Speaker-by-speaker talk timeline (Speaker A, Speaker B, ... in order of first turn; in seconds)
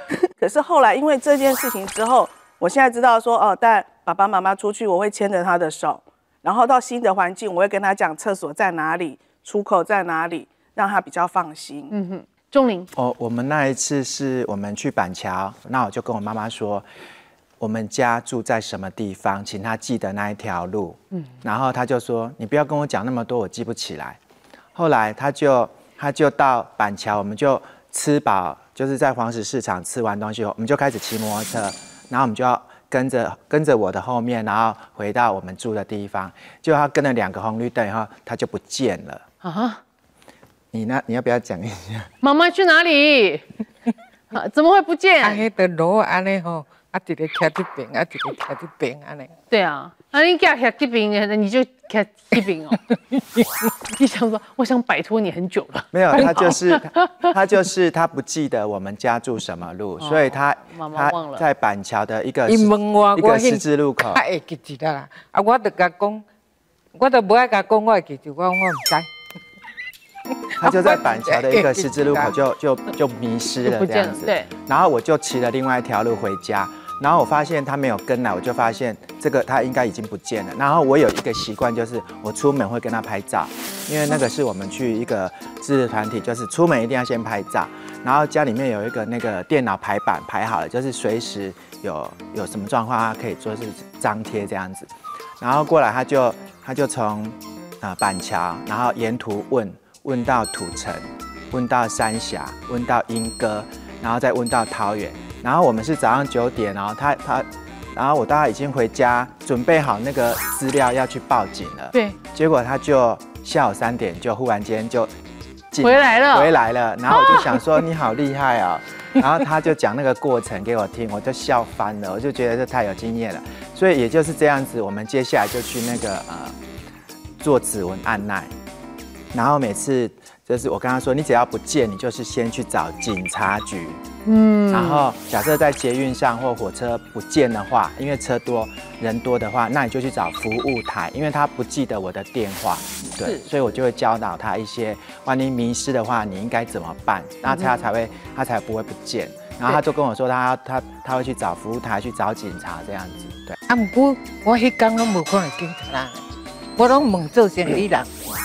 Speaker A: 0.4-11.9
Speaker B: 11.9-12.9, 39.4-39.8, 42.2-43.4, 44.3-45.4, 49.5-52.8, 54.0-57.3, 60.0-61.5, 73.7-74.5, 115.8-116.5, 117.1-117.5, 134.2-135.1
Speaker C: 12.9-16.9, 17.6-24.2, 24.8-39.2, 40.7-42.1, 55.9-64.2, 70.6-115.1, 115.7-126.6, 127.4-128.5, 129.3-134.0, 134.7-153.6
Speaker D: 45.2-49.3, 62.5-66.2, 66.9-69.1, 70.5-72.3, 153.7-156.2, 156.8-158.1